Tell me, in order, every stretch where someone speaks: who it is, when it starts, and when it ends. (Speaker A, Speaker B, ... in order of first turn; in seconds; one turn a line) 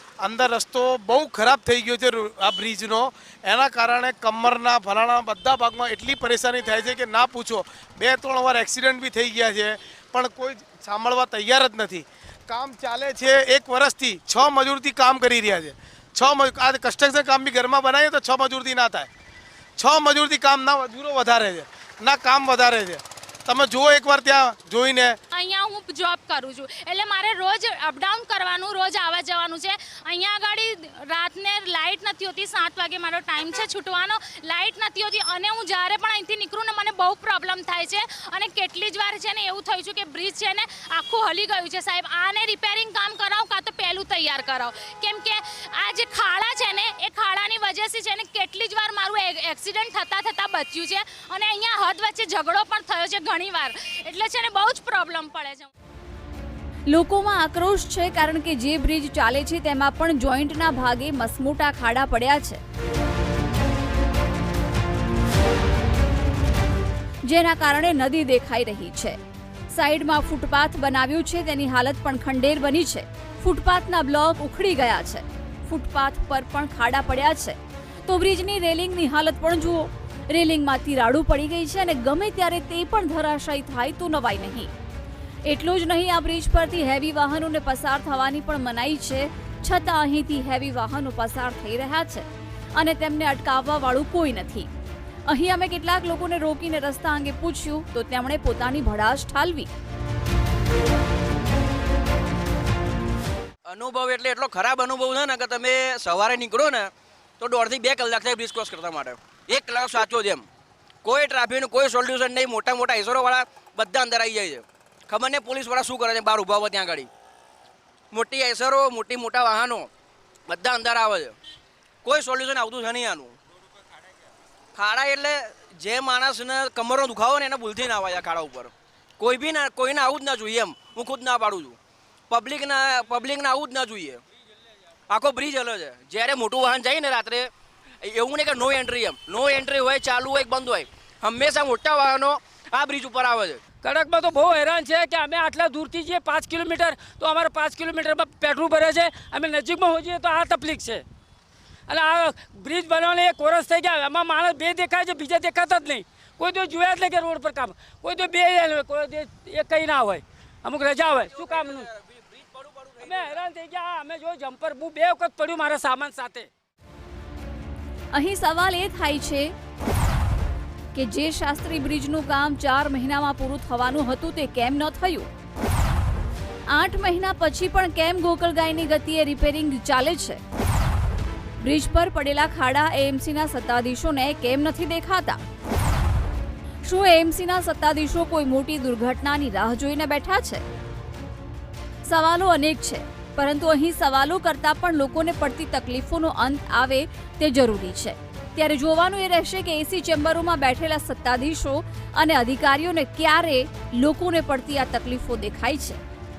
Speaker A: 0.2-19.1
Speaker A: 19.8-25.2
Speaker B: 25.3-55.7
Speaker C: 56.9-62.6
Speaker C: 67.3-69.2
Speaker C: 69.7-84.7
Speaker C: 85.5-92.3
Speaker C: 92.8-94.7
Speaker C: 95.3-99.7
Speaker D: 103.7-110.5
Speaker D: 111.0-117.1
Speaker D: 118.1-119.9
Speaker D: 120.5-121.4
Speaker D: 122.0-123.4
Speaker D: 124.8-131.8
Speaker D: 132.3-134.2
Speaker D: 135.1-137.5
Speaker D: 138.0-143.6
Speaker E: 143.8-151.0
Speaker E: 151.9-161.9
Speaker D: 161.2-163.4
Speaker E: 163.0-166.5
Speaker C: 168.2-169.5
Speaker C: 170.9-175.3
Speaker C: 176.7-180.4
Speaker C: 181.6-185.4
Speaker C: 186.8-190.6
Speaker C: 192.1-206.0